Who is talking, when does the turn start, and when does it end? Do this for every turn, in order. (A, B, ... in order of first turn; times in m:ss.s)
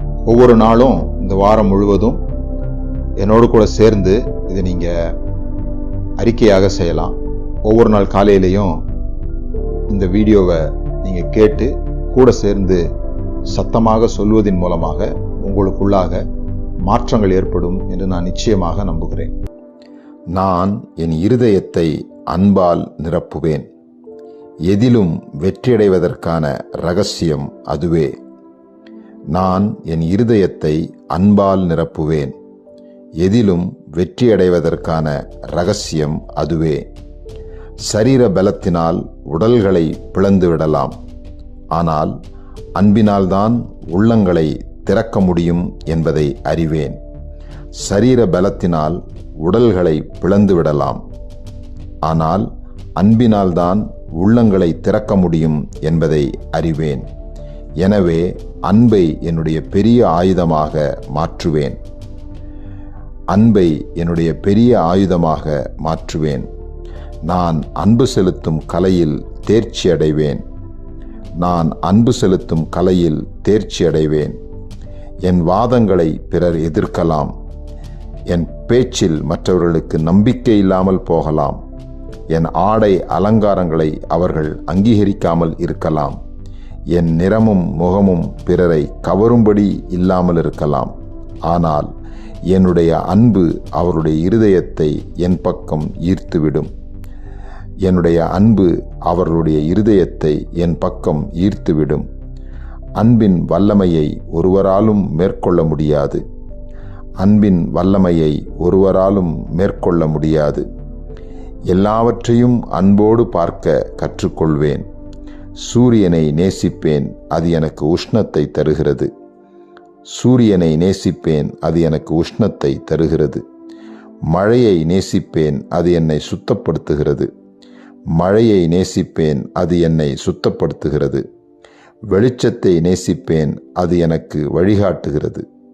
0:00.2-0:02.2 A
0:03.2-0:04.9 A
0:06.2-0:08.8 A
0:09.9-0:12.8 A
0:13.5-0:16.2 A
0:16.8-0:19.3 A
0:20.3-0:23.6 A
0:24.7-0:28.1 A
0:29.3-0:32.3 A
0:33.2-0:36.8 A
0:37.9-0:40.9 A
0:41.8-0:42.1 A
0:42.8-0:47.0 A
0:47.8-0:51.0 A
0:52.0-0:52.4 A
0:53.0-0:57.0 A
0:57.8-1:01.8 A
1:03.3-1:06.5 A
1:07.3-1:10.4 A
1:11.4-1:14.3 A
1:15.2-1:17.3 A
1:18.3-1:21.6 A
1:22.3-1:26.2 A
1:26.9-1:30.9 A
1:31.5-1:31.9 A
1:32.5-1:36.7 A
1:37.8-1:42.0 A
1:43.0-1:46.2 A
1:47.2-1:50.6 A
1:51.7-1:54.8 A
1:55.6-1:59.1 A
2:00.1-2:03.4 A
2:04.3-2:07.3 A
2:08.2-2:11.2 A
2:12.1-2:15.4 A